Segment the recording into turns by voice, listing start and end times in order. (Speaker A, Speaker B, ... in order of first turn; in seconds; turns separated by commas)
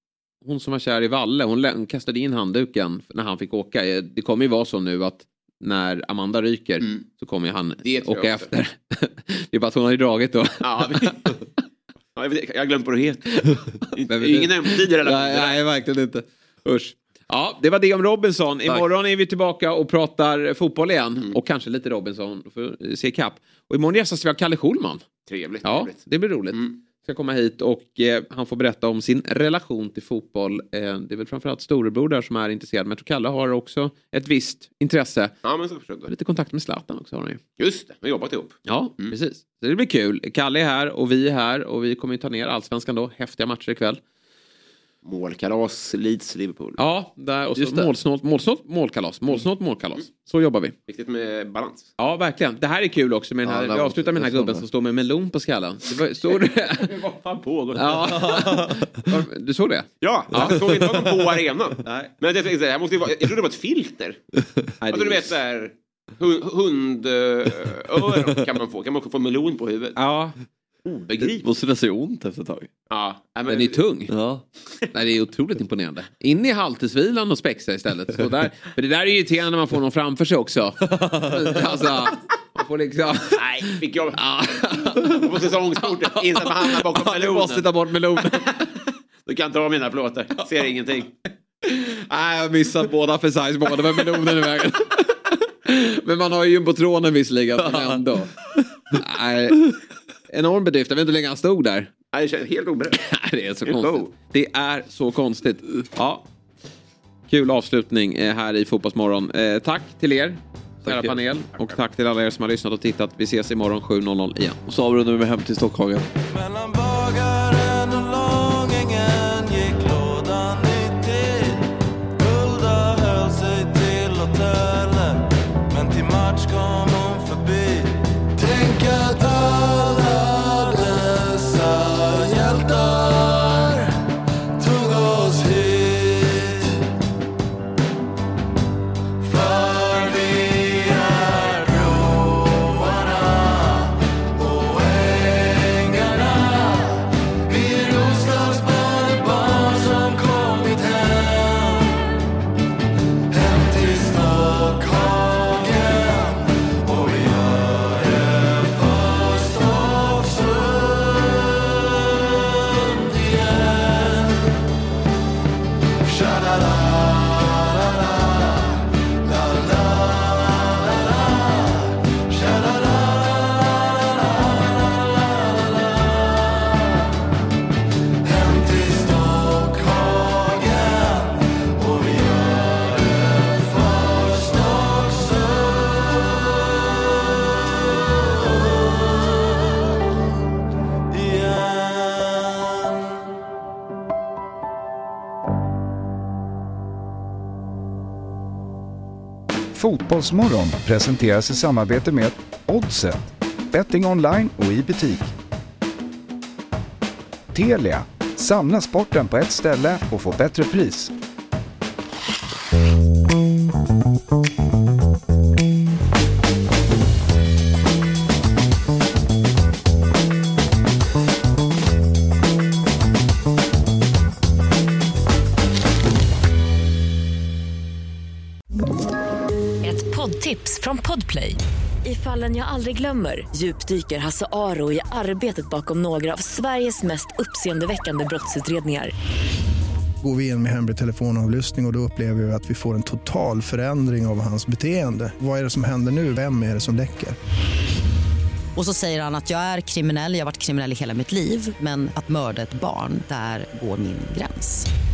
Speaker A: 0.4-11.4, Speaker B: 7.8-8.5, Speaker B: 10.6-11.3, Speaker B: 12.2-15.6, Speaker A: 14.1-25.1, Speaker B: 25.3-26.8, Speaker A: 25.6-35.3, Speaker B: 35.4-36.1, Speaker A: 36.1-37.4, Speaker B: 37.6-39.1, Speaker A: 38.7-44.0, Speaker B: 45.0-46.8, Speaker A: 46.8-50.7, Speaker C: 47.5-47.9, Speaker B: 50.9-51.9, Speaker A: 52.0-57.0, Speaker C: 53.4-54.6, Speaker B: 57.0-57.8, Speaker C: 57.7-59.0, Speaker A: 57.7-60.7, Speaker B: 60.0-64.2, Speaker C: 60.4-60.7, Speaker A: 61.8-62.1, Speaker A: 64.8-65.3, Speaker B: 64.9-70.0, Speaker A: 70.0-70.3, Speaker B: 70.8-71.4, Speaker C: 71.2-72.7, Speaker B: 72.9-73.8, Speaker A: 73.5-74.1, Speaker C: 74.1-74.4, Speaker A: 74.9-85.2, Speaker C: 80.8-81.9, Speaker B: 83.3-84.2, Speaker B: 85.0-87.7, Speaker A: 85.8-88.7, Speaker B: 88.2-88.6, Speaker B: 89.2-91.1, Speaker A: 91.6-98.3, Speaker C: 97.6-98.0, Speaker A: 98.9-99.8, Speaker A: 100.3-101.9, Speaker B: 102.1-103.0, Speaker A: 102.9-106.2, Speaker B: 103.6-104.1, Speaker A: 107.3-114.6, Speaker C: 110.8-111.2, Speaker C: 114.7-116.1, Speaker D: 199.7-205.3, Speaker D: 207.5-211.1, Speaker E: 229.8-239.1, Speaker F: 240.2-247.3, Speaker G: 248.7-254.8